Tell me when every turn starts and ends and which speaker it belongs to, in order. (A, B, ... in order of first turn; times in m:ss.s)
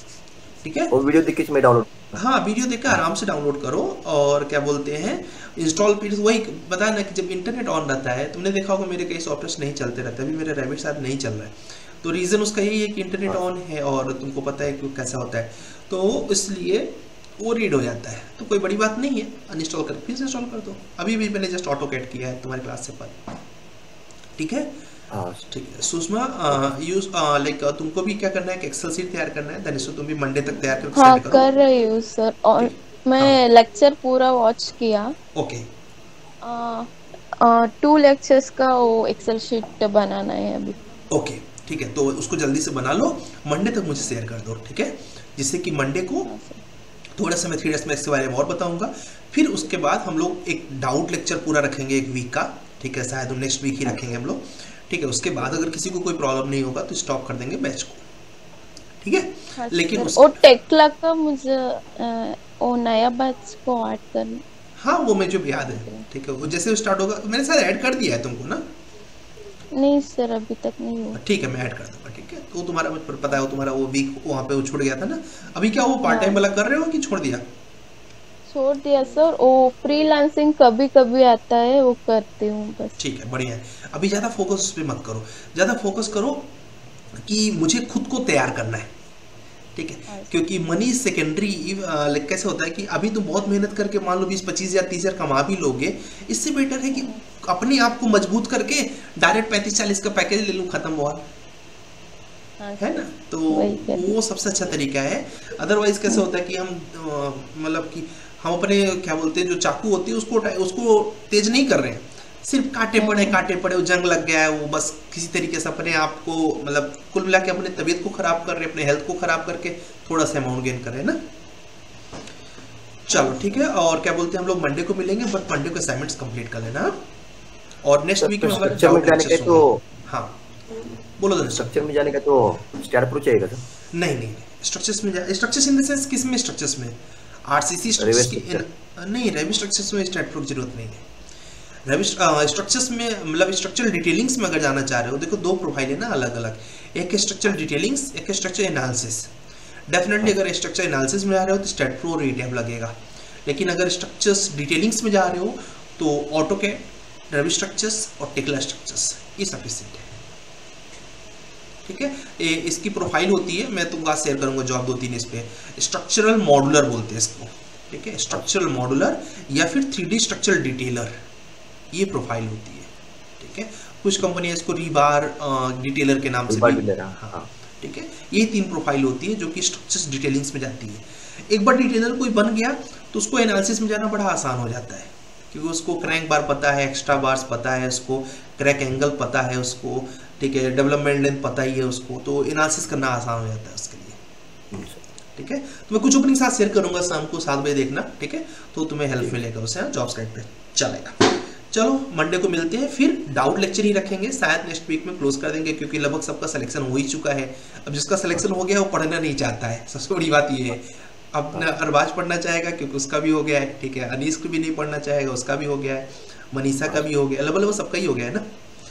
0:00.6-0:00.9 A
0:00.9-0:02.2 B
0:02.1-0:23.2 A
0:24.4-0:24.7 A
0:25.1-0:25.5 B
0:25.5-0:31.5 A
0:30.9-0:35.1 C
0:32.6-0:33.4 A
0:35.3-0:35.7 A
0:36.4-0:40.8 C
0:41.1-0:46.3 A
0:46.2-0:46.6 C
0:47.2-0:58.0 A
0:59.0-1:00.4 A
0:59.6-1:04.4 C
1:04.8-1:08.6 A
1:05.7-1:06.0 C
1:09.7-1:11.2 C
1:11.1-1:17.4 A
1:16.0-1:16.4 C
1:18.5-1:23.0 C
1:23.0-1:26.5 A
1:27.1-1:28.9 A
1:29.7-1:41.2 A
1:30.1-1:30.4 C
1:42.6-1:44.2 C
1:42.8-2:01.2 A
1:53.0-1:53.4 C
2:03.0-2:07.0 A
2:03.1-2:03.6 C
2:07.8-2:10.4 A
2:08.2-2:09.8 B
2:11.2-2:11.7 A
2:11.6-2:13.6 B
2:13.9-2:21.0 A
2:18.0-2:18.6 B
2:21.8-2:29.3 A
2:29.9-2:40.1 A
2:41.8-2:51.2 A
2:51.9-3:14.2 A
2:56.5-2:57.5 B
3:14.7-3:15.0 B
3:15.4-3:38.5 A